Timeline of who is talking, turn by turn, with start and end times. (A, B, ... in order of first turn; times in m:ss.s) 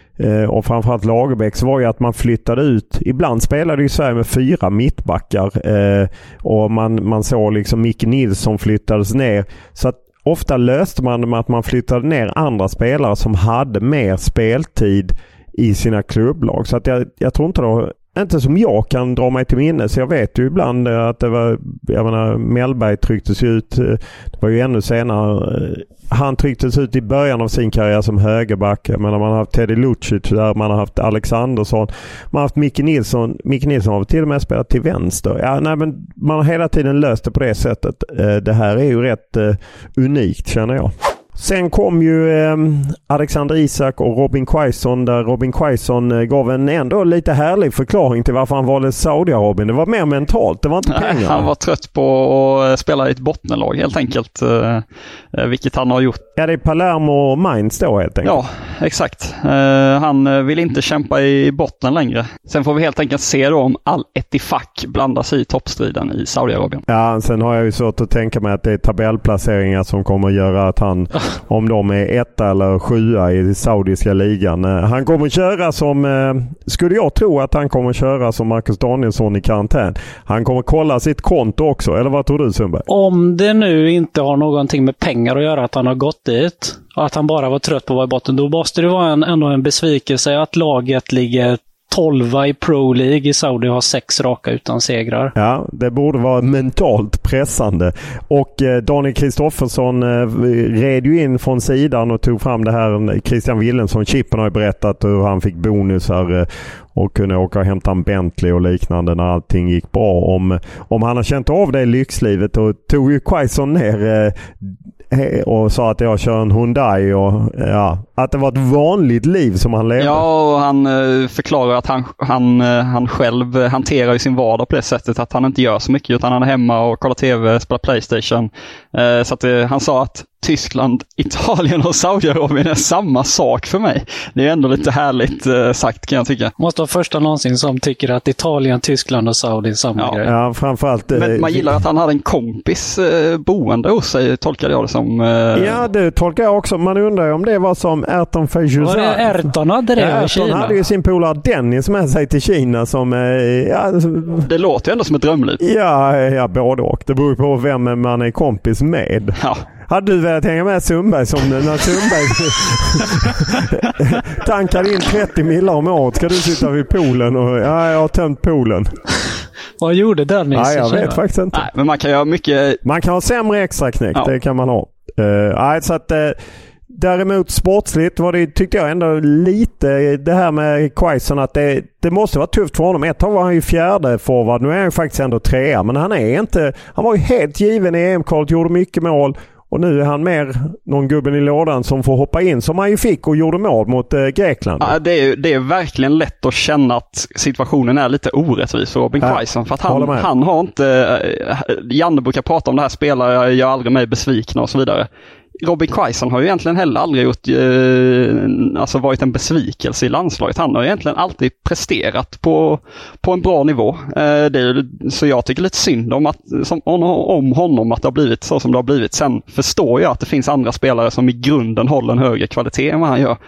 0:00.2-0:51.5 A
0:50.8-0:56.2 B
0:56.4-0:58.4 A
0:58.2-1:06.8 B
1:06.9-1:22.8 A
1:22.9-1:35.3 C
1:35.4-2:00.2 A
2:00.0-2:16.5 B
2:16.6-2:20.3 C
2:20.2-2:21.8 A
2:21.1-2:25.8 B
2:25.5-2:34.5 A
2:28.8-2:30.8 C
2:34.4-2:35.6 B
2:35.6-2:48.9 A
2:49.8-2:51.2 C
2:50.5-2:51.7 A
2:51.5-2:52.8 B
2:52.8-2:56.4 A
2:56.9-3:14.9 A
3:14.8-3:25.1 B
3:19.2-3:20.3 A
3:25.6-3:43.4 B